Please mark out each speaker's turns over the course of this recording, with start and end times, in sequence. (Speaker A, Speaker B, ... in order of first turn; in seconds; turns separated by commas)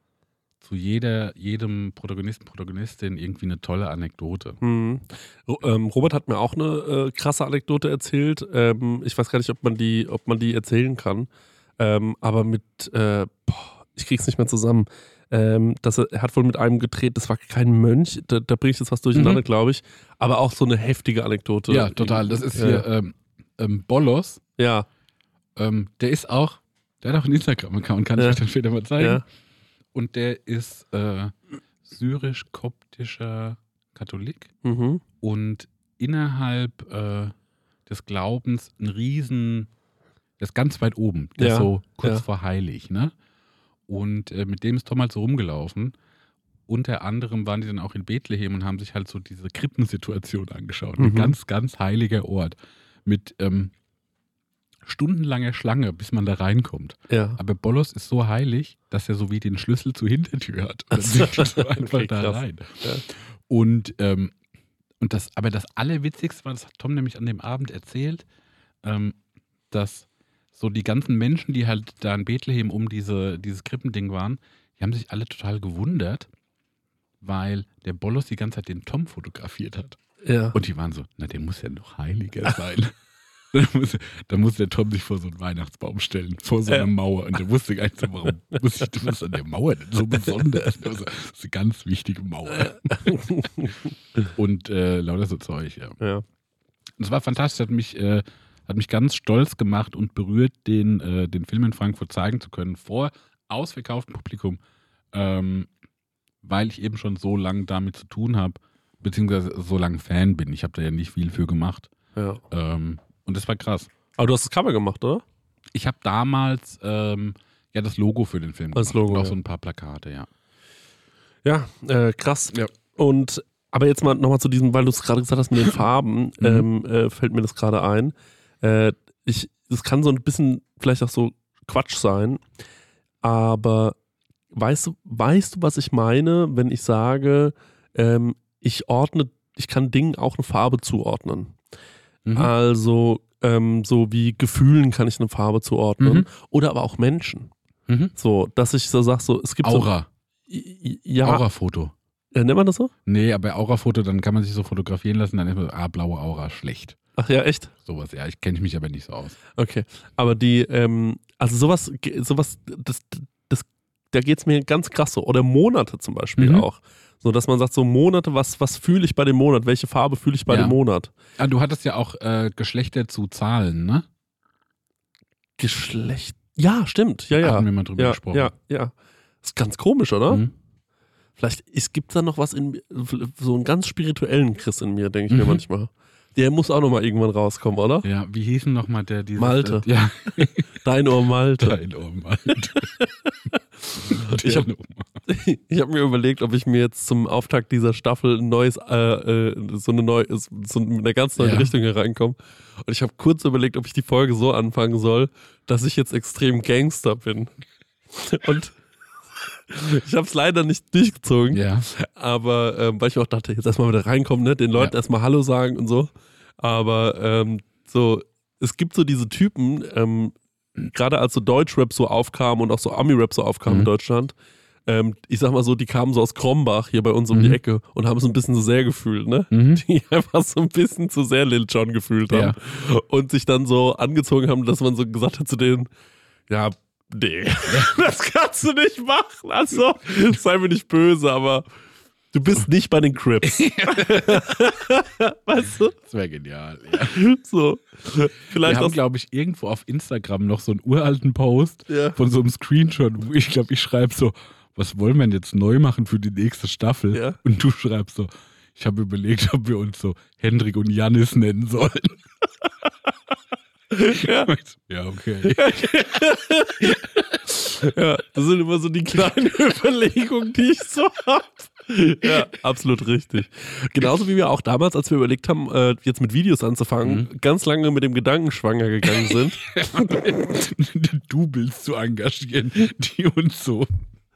Speaker A: 0.6-4.6, Speaker B: 4.6-22.9, Speaker A: 19.1-19.4, Speaker A: 21.7-24.4, Speaker B: 24.6-24.9, Speaker A: 25.6-29.2, Speaker B: 29.0-29.2, Speaker A: 29.9-34.5, Speaker B: 34.6-35.0, Speaker A: 35.2-37.3, Speaker A: 37.9-39.7, Speaker A: 40.4-43.1, Speaker B: 41.4-42.2, Speaker A: 43.9-45.9, Speaker A: 46.7-53.7, Speaker B: 51.0-51.3, Speaker A: 54.8-64.3, Speaker B: 57.1-57.4, Speaker B: 60.9-63.0, Speaker A: 65.0-68.2, Speaker A: 68.8-69.2, Speaker A: 69.7-76.3, Speaker A: 77.2-80.0, Speaker B: 80.2-80.5, Speaker A: 80.5-82.9, Speaker A: 83.5-93.2, Speaker B: 92.5-94.2, Speaker A: 94.3-96.0, Speaker B: 96.0-96.2, Speaker A: 97.0-104.6, Speaker A: 105.1-105.7, Speaker A: 106.4-111.9, Speaker B: 112.2-112.4, Speaker A: 112.5-113.9, Speaker B: 114.2-115.2, Speaker A: 115.7-120.3, Speaker B: 118.7-119.3, Speaker B: 121.4-132.4, Speaker A: 126.4-126.7, Speaker B: 133.2-133.9, Speaker B: 134.5-141.6, Speaker A: 142.2-142.5, Speaker B: 142.3-147.5, Speaker A: 146.0-146.3, Speaker A: 147.9-148.1, Speaker B: 148.2-149.9, Speaker A: 149.6-150.1, Speaker B: 150.5-151.4, Speaker A: 151.2-151.9, Speaker B: 152.3-152.9, Speaker A: 153.1-157.0, Speaker B: 157.2-157.7, Speaker A: 157.8-159.4, Speaker B: 159.6-171.1, Speaker A: 166.4-166.7, Speaker A: 170.5-170.8, Speaker A: 171.4-174.0, Speaker B: 175.6-180.4, Speaker A: 177.4-178.5, Speaker B: 181.4-188.1, Speaker A: 185.3-185.6, Speaker A: 188.0-190.8, Speaker B: 189.4-189.9, Speaker B: 190.4-191.8, Speaker A: 191.6-192.9, Speaker B: 192.5-194.7, Speaker A: 194.1-195.1, Speaker B: 195.3-207.5, Speaker A: 201.4-201.7, Speaker B: 208.1-208.8, Speaker B: 209.3-224.3, Speaker A: 211.5-211.9, Speaker B: 224.8-235.9, Speaker A: 227.3-227.6, Speaker A: 229.5-229.8, Speaker A: 232.3-232.6, Speaker B: 236.5-241.7, Speaker A: 237.7-237.9, Speaker B: 242.3-245.9, Speaker A: 243.4-244.6, Speaker A: 245.9-247.2, Speaker B: 247.0-249.0, Speaker A: 248.6-262.2, Speaker B: 251.9-252.2, Speaker B: 257.1-257.4, Speaker B: 263.9-264.5, Speaker A: 264.1-266.2, Speaker B: 265.4-279.7, Speaker A: 277.0-277.3, Speaker A: 279.6-283.9